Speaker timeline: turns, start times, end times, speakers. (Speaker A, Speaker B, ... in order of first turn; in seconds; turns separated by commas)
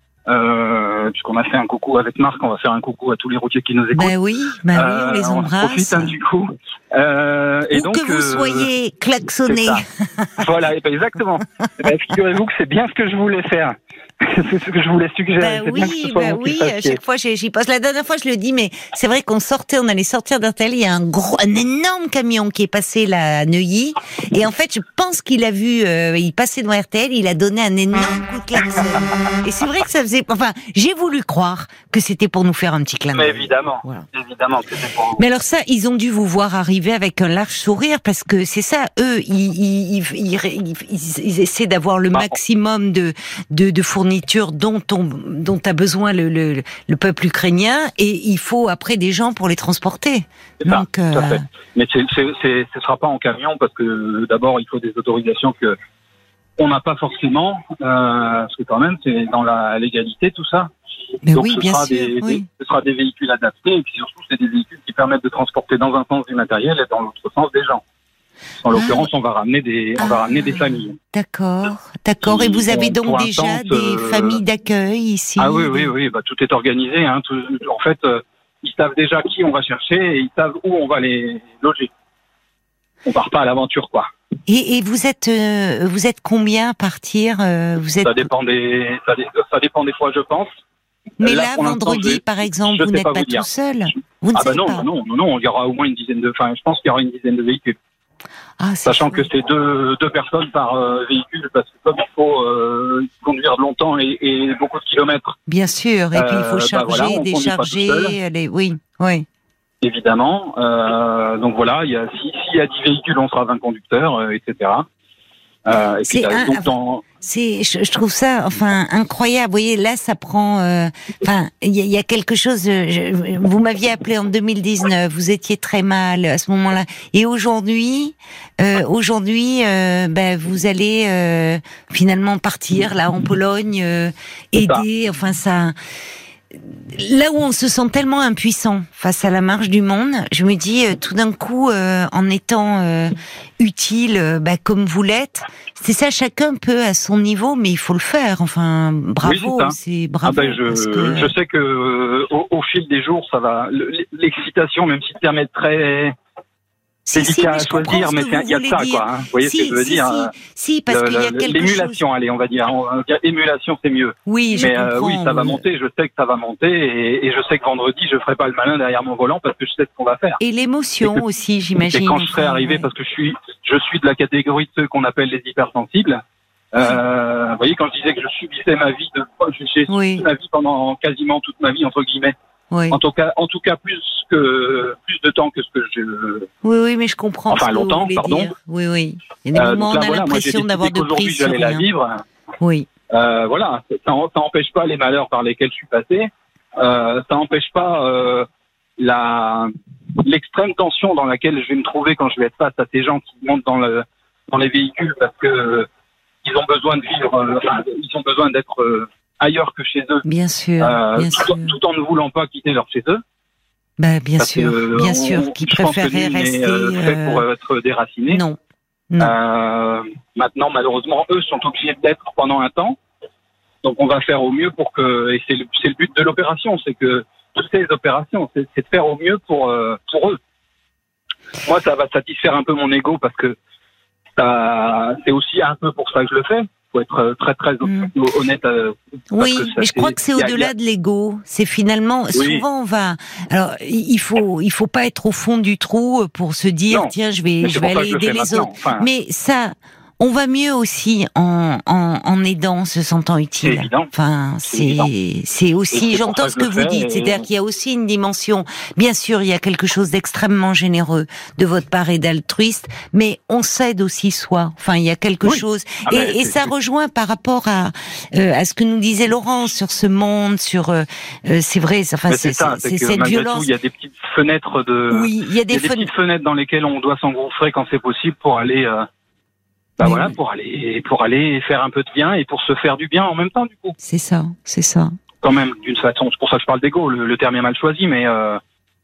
Speaker A: 0.3-4.1, Speaker B: 4.0-6.1, Speaker A: 4.7-8.7, Speaker B: 7.7-10.3, Speaker A: 9.5-9.8, Speaker A: 10.4-17.0, Speaker B: 15.4-34.1, Speaker A: 33.1-35.2, Speaker B: 35.2-51.5, Speaker A: 50.6-55.8, Speaker A: 56.6-60.7, Speaker B: 61.2-62.5, Speaker A: 61.3-67.8, Speaker A: 68.6-71.0, Speaker B: 68.7-69.1, Speaker B: 70.0-75.9, Speaker A: 72.2-74.4, Speaker A: 75.4-81.9, Speaker A: 83.0-84.1, Speaker B: 84.5-88.3, Speaker A: 88.0-90.5, Speaker A: 91.2-93.5, Speaker B: 91.2-94.9, Speaker A: 94.3-97.8, Speaker B: 98.6-99.3, Speaker A: 98.8-105.4, Speaker B: 105.5-109.3, Speaker A: 106.1-108.2, Speaker A: 109.8-114.9, Speaker A: 115.7-117.0, Speaker B: 116.0-135.8, Speaker A: 134.6-134.8, Speaker B: 136.9-151.3, Speaker A: 149.2-156.2, Speaker B: 157.1-162.0, Speaker A: 157.1-160.3, Speaker A: 160.9-170.4, Speaker B: 164.3-165.6, Speaker B: 170.4-172.9, Speaker A: 171.9-182.3, Speaker B: 179.9-180.2, Speaker B: 182.7-183.0, Speaker A: 182.9-186.5, Speaker B: 186.6-191.9, Speaker A: 187.5-188.5, Speaker A: 189.5-192.2, Speaker B: 192.6-192.9, Speaker A: 193.1-199.7, Speaker A: 200.2-205.9, Speaker A: 206.4-210.2, Speaker B: 210.2-211.8, Speaker A: 210.8-213.2, Speaker B: 214.0-217.4, Speaker A: 214.4-218.4, Speaker B: 218.3-218.6, Speaker A: 219.2-223.0, Speaker A: 223.8-230.4, Speaker A: 231.6-233.6, Speaker A: 234.4-240.7, Speaker B: 237.8-238.1, Speaker B: 239.3-273.7, Speaker A: 242.3-242.7, Speaker A: 246.9-249.1, Speaker A: 253.6-254.1, Speaker A: 254.7-255.1, Speaker A: 255.9-257.5, Speaker A: 265.4-266.7, Speaker A: 272.3-279.1, Speaker B: 275.1-276.1, Speaker A: 280.0-284.0, Speaker B: 280.0-280.3, Speaker B: 284.0-285.1, Speaker A: 285.4-288.6